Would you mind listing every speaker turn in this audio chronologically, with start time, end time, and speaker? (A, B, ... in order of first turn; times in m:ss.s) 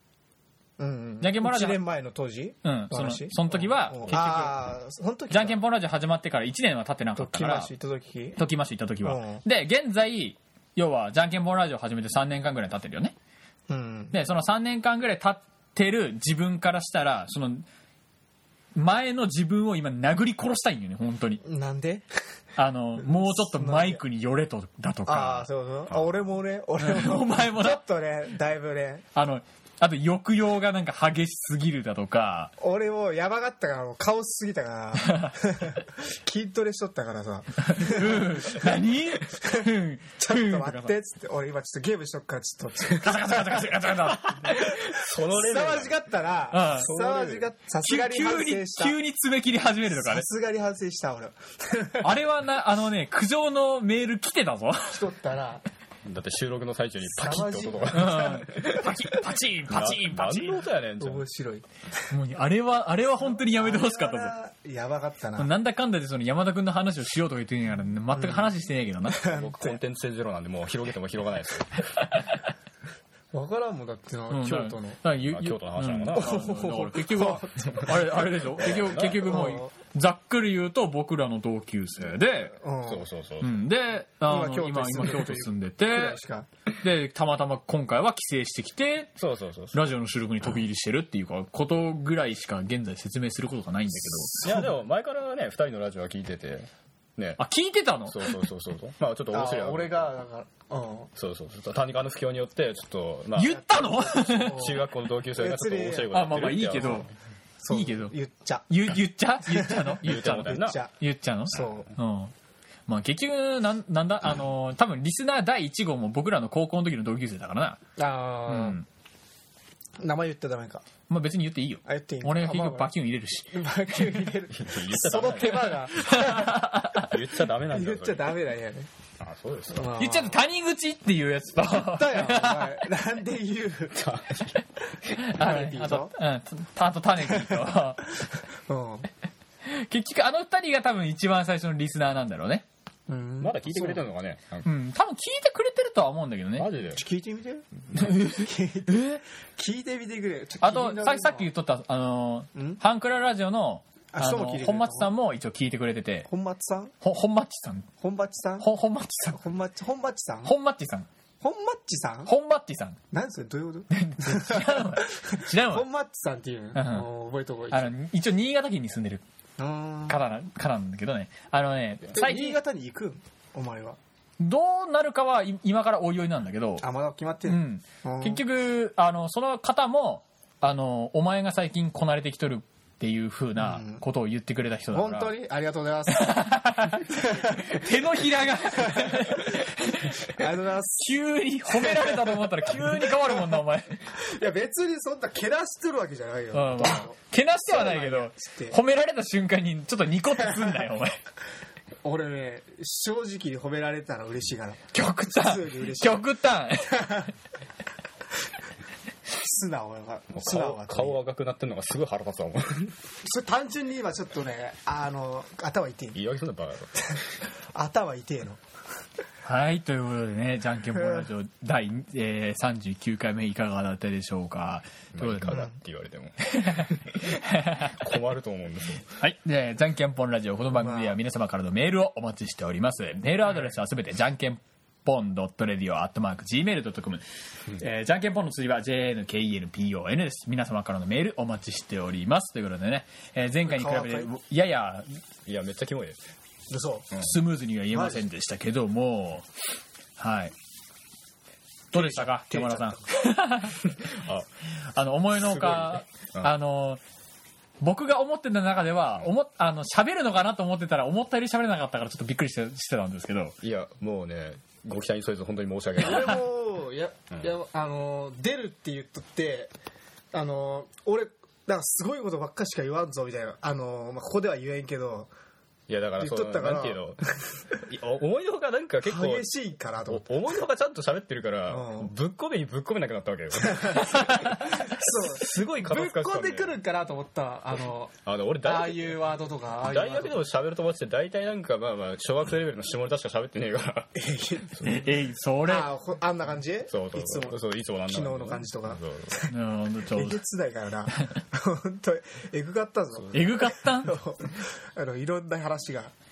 0:00.8-0:05.6 A
0:01.2-0:01.8 B
0:02.6-0:04.6 B
0:05.3-0:07.7 B
0:07.2-0:08.4 A
0:08.4-0:13.1 B
0:09.0-0:09.4 A
0:13.7-0:14.2 A
0:14.1-0:17.7 B
0:18.8-0:21.4 B
0:21.4-0:22.1 A
0:22.6-0:25.5 B
0:23.0-0:24.0 A
0:25.1-0:29.0 A
0:26.8-0:27.8 B
0:29.1-0:32.5 B
0:32.6-0:38.6 A
0:35.0-0:35.3 B
0:37.6-0:40.9 B
0:39.3-0:49.0 A
0:43.0-0:44.6 B
0:44.4-0:45.9 C
0:46.5-0:46.9 B
0:46.7-0:47.5 C
0:47.8-0:50.2 B
0:49.9-0:52.2 A
0:52.0-0:55.0 B
0:54.9-0:55.6 A
0:56.0-0:58.9 C
0:57.1-0:58.5 A
0:57.9-1:00.6 B
0:59.7-1:01.2 C
1:01.0-1:01.6 A
1:02.1-1:04.3 B
1:03.2-1:05.5 A
1:05.4-1:09.2 B
1:08.1-1:08.6 A
1:09.1-1:11.8 C
1:09.1-1:09.8 A
1:13.3-1:15.0 A
1:14.3-1:22.6 B
1:15.2-1:16.5 C
1:16.1-1:18.0 A
1:18.6-1:19.5 C
1:19.2-1:19.7 A
1:22.6-1:23.0 A
1:22.8-1:23.5 C
1:23.4-1:26.2 B
1:24.3-1:26.5 A
1:26.8-1:29.1 B
1:29.2-1:29.8 C
1:29.7-1:34.7 B
1:34.0-1:34.7 A
1:34.4-1:37.4 C
1:37.4-1:38.3 B
1:38.1-1:40.2 C
1:39.3-1:41.1 A
1:41.2-1:43.6 C
1:43.4-1:44.6 B
1:43.4-1:44.8 A
1:44.5-1:47.1 C
1:45.3-1:47.0 A
1:46.1-1:47.1 B
1:47.6-1:48.7 A
1:47.7-1:48.1 B
1:48.7-1:52.3 B
1:49.5-1:50.9 A
1:50.0-1:50.8 C
1:51.5-1:51.9 A
1:52.9-1:57.8 B
1:58.0-1:58.8 A
1:58.5-1:58.9 B
2:00.0-2:00.8 A
2:01.1-2:03.5 B
2:01.9-2:02.9 A
2:03.5-2:06.7 A
2:04.6-2:05.9 C
2:06.0-2:07.1 B
2:07.0-2:08.3 C
2:07.7-2:08.9 A
2:09.2-2:09.9 C
2:09.7-2:10.4 A
2:10.0-2:12.8 B
2:11.7-2:14.0 A
2:13.9-2:14.5 C
2:15.2-2:18.2 B
2:15.3-2:16.1 A
2:17.2-2:17.6 A
2:18.7-2:19.1 A
2:19.6-2:22.6 B
2:23.1-2:24.1 A
2:23.4-2:24.7 C
2:24.6-2:26.7 B
2:26.6-2:27.0 C
2:27.0-2:31.5 A
2:28.0-2:29.2 B
2:30.6-2:36.3 B
2:32.6-2:32.8 A
2:34.1-2:35.1 A
2:36.3-2:36.9 A
2:37.0-2:37.9 B
2:38.0-2:38.7 A
2:38.6-2:39.4 B
2:39.3-2:40.5 A
2:40.4-2:41.1 B
2:41.4-2:42.3 A
2:42.2-2:43.0 B
2:43.1-2:47.9 A
2:43.9-2:45.9 B
2:46.8-2:47.1 B
2:47.7-2:49.2 B
2:49.6-2:50.2 A
2:50.1-2:52.6 B
2:52.1-2:54.0 A
2:54.4-2:56.8 B
2:56.8-2:58.4 A
2:57.5-3:05.4 B
3:03.6-3:04.0 A
3:04.9-3:07.8 A
3:06.1-3:10.2 B
3:08.8-3:09.6 A
3:10.3-3:13.4 A
3:11.0-3:14.0 B
3:14.1-3:18.8 A
3:16.5-3:21.2 B
3:20.4-3:20.8 A
3:22.0-3:24.8 A
3:24.9-3:27.3 B
3:25.4-3:26.3 A
3:27.0-3:27.3 A
3:29.3-3:31.2 A
3:30.3-3:32.9 C
3:33.2-3:36.2 A
3:36.1-3:37.0 C
3:37.0-3:38.6 A
3:39.4-3:45.7 B
3:40.9-3:41.3 A
3:45.1-3:47.2 C
3:45.5-3:45.7 A
3:46.5-3:47.9 B
3:47.9-3:49.1 C
3:49.2-3:57.2 B
3:50.7-3:51.2 A
3:57.8-4:05.1 B
4:03.6-4:04.3 A
4:05.5-4:06.2 C
4:06.7-4:07.1 A
4:07.2-4:09.4 B
4:07.9-4:08.2 A
4:10.2-4:10.5 B
4:11.9-4:13.8 B
4:11.9-4:13.1 A
4:14.0-4:14.5 C
4:14.9-4:17.0 B
4:15.3-4:16.5 C
4:17.8-4:23.6 B
4:23.6-4:26.4 C
4:26.0-4:29.7 A
4:30.3-4:35.3 A
4:35.9-4:37.2 C
4:36.2-4:37.6 A
4:37.9-4:39.5 C
4:39.0-4:40.4 A
4:40.1-4:46.8 C
4:41.7-4:42.1 A
4:43.6-4:50.4 A
4:48.2-4:54.2 C
4:54.2-4:54.9 A
4:54.7-4:55.0 C
4:54.8-4:55.9 B
4:55.7-4:59.5 A
4:56.9-4:59.3 C
4:59.5-5:00.4 B
5:00.1-5:06.1 A
5:03.2-5:03.4 C
5:03.3-5:04.2 B